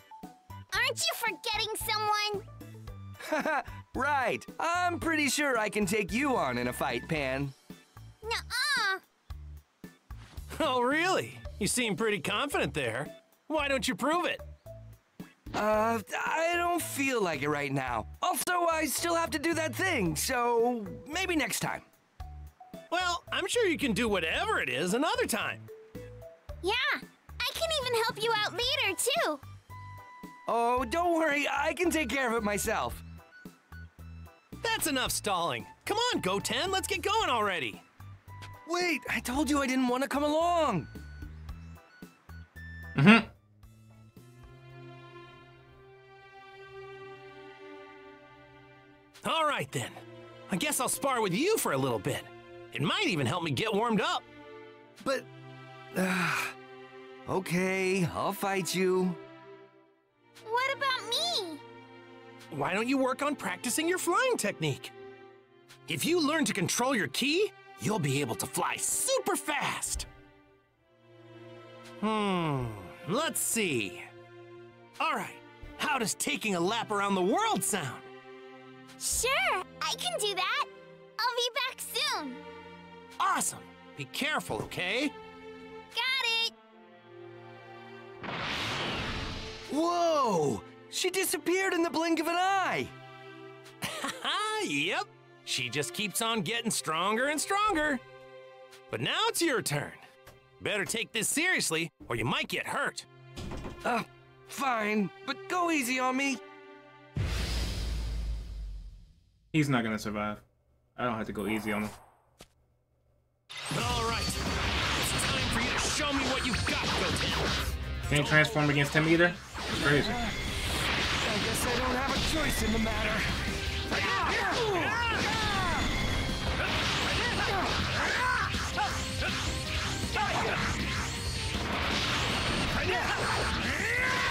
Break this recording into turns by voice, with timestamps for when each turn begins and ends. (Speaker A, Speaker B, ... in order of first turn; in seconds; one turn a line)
Speaker A: 0.7-2.4
Speaker B: 3.2-7.5
Speaker A: 8.2-9.0
Speaker C: 10.5-14.4
Speaker B: 15.5-21.8
Speaker C: 22.9-25.6
Speaker A: 26.6-29.4
Speaker B: 30.5-33.0
Speaker C: 34.6-37.8
Speaker B: 38.6-40.9
Speaker D: 42.9-43.3
Speaker C: 49.2-54.2
Speaker B: 55.0-55.3
Speaker B: 55.9-56.5
Speaker B: 57.2-59.2
Speaker A: 60.4-61.6
Speaker C: 62.5-64.9
Speaker C: 65.9-70.1
Speaker C: 72.0-74.1
Speaker C: 75.0-78.0
Speaker A: 79.0-82.4
Speaker C: 83.2-85.1
Speaker A: 85.9-86.5
Speaker B: 89.7-92.9
Speaker C: 93.8-98.0
Speaker C: 98.9-100.0
Speaker C: 100.6-103.1
Speaker B: 103.8-106.4
Speaker D: 109.5-110.4
Speaker D: 111.0-111.9
Speaker C: 113.7-114.4
Speaker C: 115.0-117.5
Speaker D: 118.1-120.2
Speaker C: 118.1-118.4
Speaker B: 119.7-120.3
Speaker B: 121.2-123.3
Speaker B: 124.1-125.6
Speaker B: 132.8-133.1